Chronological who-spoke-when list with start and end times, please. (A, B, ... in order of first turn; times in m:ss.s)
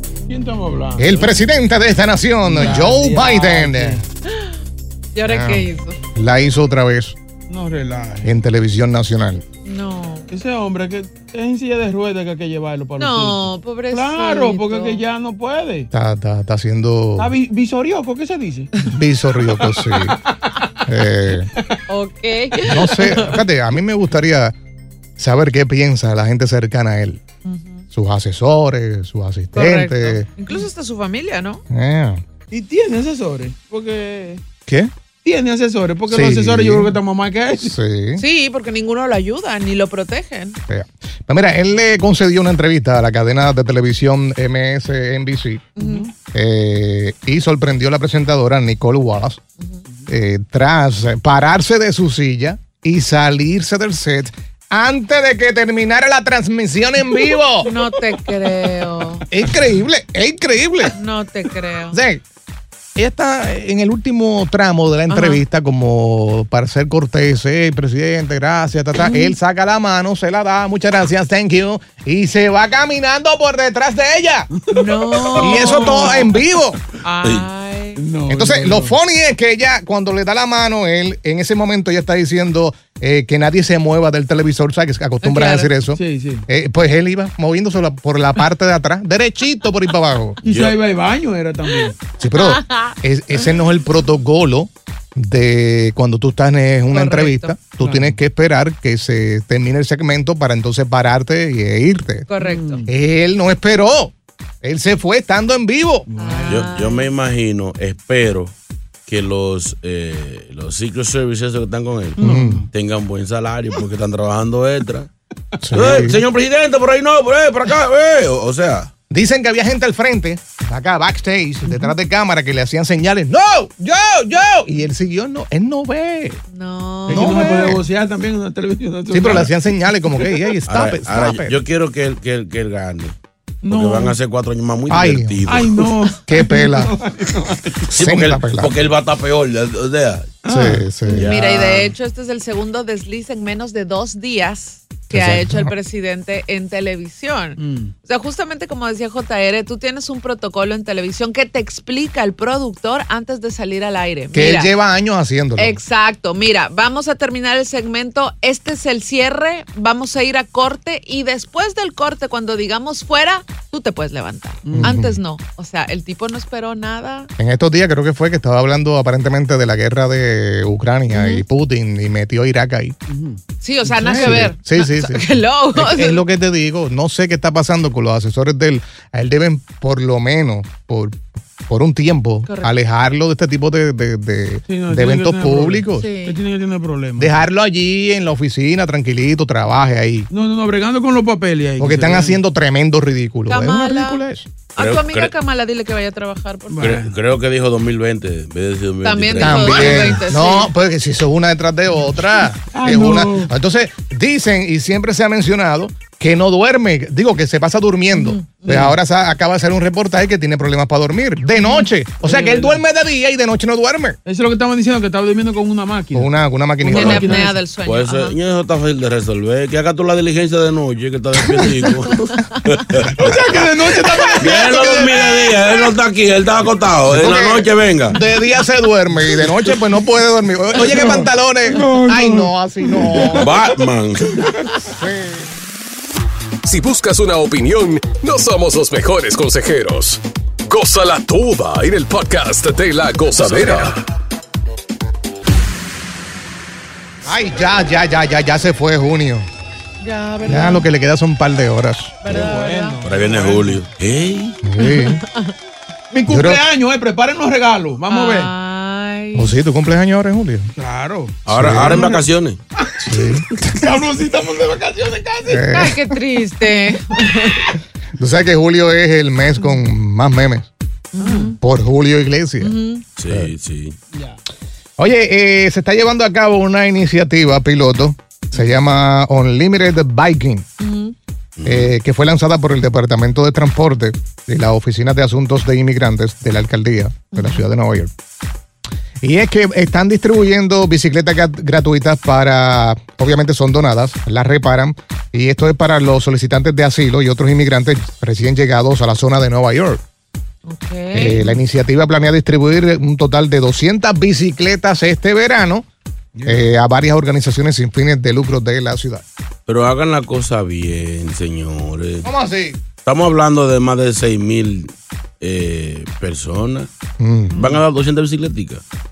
0:00.3-0:01.4 A
0:01.0-0:04.0 B
0:02.4-0:04.0 A
0:04.3-0:04.5 C
0:05.1-0:06.0 C
0:05.2-0:07.2 B
0:07.5-0:08.3 A
0:08.2-0:09.4 B
0:09.6-0:10.3 C
0:10.3-0:15.9 A
0:13.0-0:15.0 C
0:15.9-0:17.4 B
0:17.2-0:18.7 A
0:18.8-0:20.2 B
0:19.6-0:20.4 A
0:20.8-0:21.5 B
0:21.9-0:23.4 C
0:22.6-0:24.5 B
0:25.2-0:27.2 B
0:27.4-0:27.8 C
0:27.9-0:30.3 B
0:29.5-0:31.6 C
0:31.7-0:32.2 B
0:32.5-0:34.4 A
0:34.7-0:34.9 B
0:35.2-0:37.8 A
0:36.1-0:37.0 B
0:37.6-0:38.2 B
0:38.2-0:40.6 C
0:40.7-0:45.7 B
0:45.8-0:46.1 C
0:45.8-0:46.1 A
0:46.3-0:49.4 B
0:50.1-0:57.8 B
0:57.6-0:59.2 C
0:59.3-1:01.0 B
1:00.9-1:02.0 C
1:01.9-1:02.2 B
1:03.0-1:14.5 B
1:05.1-1:05.4 C
1:09.0-1:09.3 C
1:14.5-1:16.3 A
1:14.7-1:16.3 C
1:15.3-1:16.8 B
1:17.0-1:18.0 C
1:17.2-1:17.5 D
1:18.0-1:18.9 A
1:18.3-1:30.4 B
1:25.2-1:25.7 C
1:25.9-1:26.4 A
1:30.4-1:31.9 A
1:30.4-1:30.8 D
1:31.8-1:32.9 C
1:32.2-1:42.3 B
1:36.9-1:37.6 C
1:37.8-1:38.2 A
1:42.3-1:42.8 C
1:42.4-1:42.9 A
1:42.8-1:46.0 B
1:46.1-1:46.8 A
1:46.2-1:47.1 C
1:46.5-1:48.5 D
1:49.0-1:55.1 D
1:52.2-1:52.7 A
1:52.2-1:52.6 B
1:55.6-1:56.2 B
1:55.7-1:58.9 D
1:59.1-2:06.4 B
2:01.7-2:01.9 A
2:06.5-2:07.8 C
2:07.1-2:10.4 A
2:07.1-2:07.8 B
2:09.1-2:11.5 B
2:10.7-2:13.2 D
2:13.6-2:14.2 A
2:13.7-2:15.8 D
2:14.9-2:15.6 B
2:15.4-2:17.9 A
2:16.2-2:17.0 B
2:17.9-2:18.8 B
2:17.9-2:20.4 D
2:20.4-2:20.8 A
2:20.5-2:21.3 B
2:21.1-2:34.7 C
2:21.1-2:21.9 D
2:25.1-2:25.8 B
2:27.6-2:27.9 A
2:34.3-2:35.8 B
2:35.6-2:47.3 C
2:44.6-2:45.0 A
2:44.7-2:45.2 B
2:47.4-2:53.0 B
2:51.1-2:51.4 C
2:53.1-2:54.5 A
2:53.6-2:56.2 C
2:54.1-3:06.1 B
3:02.5-3:02.7 C
3:04.7-3:07.5 A
3:05.9-3:06.4 C
3:07.2-3:10.3 B
3:10.3-3:12.4 A
3:11.8-3:14.5 B
3:13.5-3:17.0 C
3:14.8-3:15.3 D
3:16.7-3:17.2 A
3:16.8-3:20.2 D
3:19.0-3:20.7 C
3:19.4-3:34.2 B
3:22.7-3:23.5 A
3:28.2-3:28.9 C
3:32.2-3:32.8 A
3:34.2-3:37.6 A
3:36.1-3:37.4 B
3:36.9-3:38.4 C
3:37.8-3:43.6 D
3:43.1-3:45.6 A
3:44.4-3:48.2 D
3:44.4-3:45.2 B
3:47.1-3:53.6 B
3:49.5-3:49.8 A
3:50.8-3:53.8 A
3:53.3-3:54.4 D
3:54.3-3:54.6 A
3:54.9-3:55.5 B
3:56.6-4:04.0 E
4:03.4-4:03.9 D
4:07.2-4:09.5 B
4:10.0-4:10.9 C
4:10.4-4:12.2 B
4:12.2-4:13.0 C
4:12.2-4:13.8 A
4:13.0-4:14.6 D
4:14.6-4:15.2 B
4:14.8-4:15.5 C
4:16.1-4:18.5 A
4:16.3-4:16.6 B
4:18.1-4:19.5 C
4:19.3-4:20.7 B
4:20.8-4:22.2 A
4:21.4-4:22.6 D
4:21.5-4:22.1 B
4:22.8-4:25.8 A
4:23.0-4:23.6 B
4:25.4-4:26.2 B
4:25.7-4:27.7 C
4:28.2-4:30.7 B
4:31.1-4:31.6 C
4:31.2-4:31.5 A
4:31.6-4:32.8 B
4:32.6-4:33.1 C
4:33.2-4:34.0 D
4:34.1-4:34.4 A
4:35.0-4:40.7 B
4:40.8-4:41.1 C
4:41.6-4:41.9 D
4:41.6-4:48.1 B
4:47.3-4:47.6 C
4:49.2-5:00.0 B
5:00.6-5:01.6 C
5:01.1-5:05.8 B
5:06.3-5:06.7 A
5:06.4-5:09.2 B
5:09.7-5:12.2 D
5:12.2-5:12.8 B
5:13.0-5:16.9 D
5:17.2-5:17.6 B
5:17.5-5:18.8 D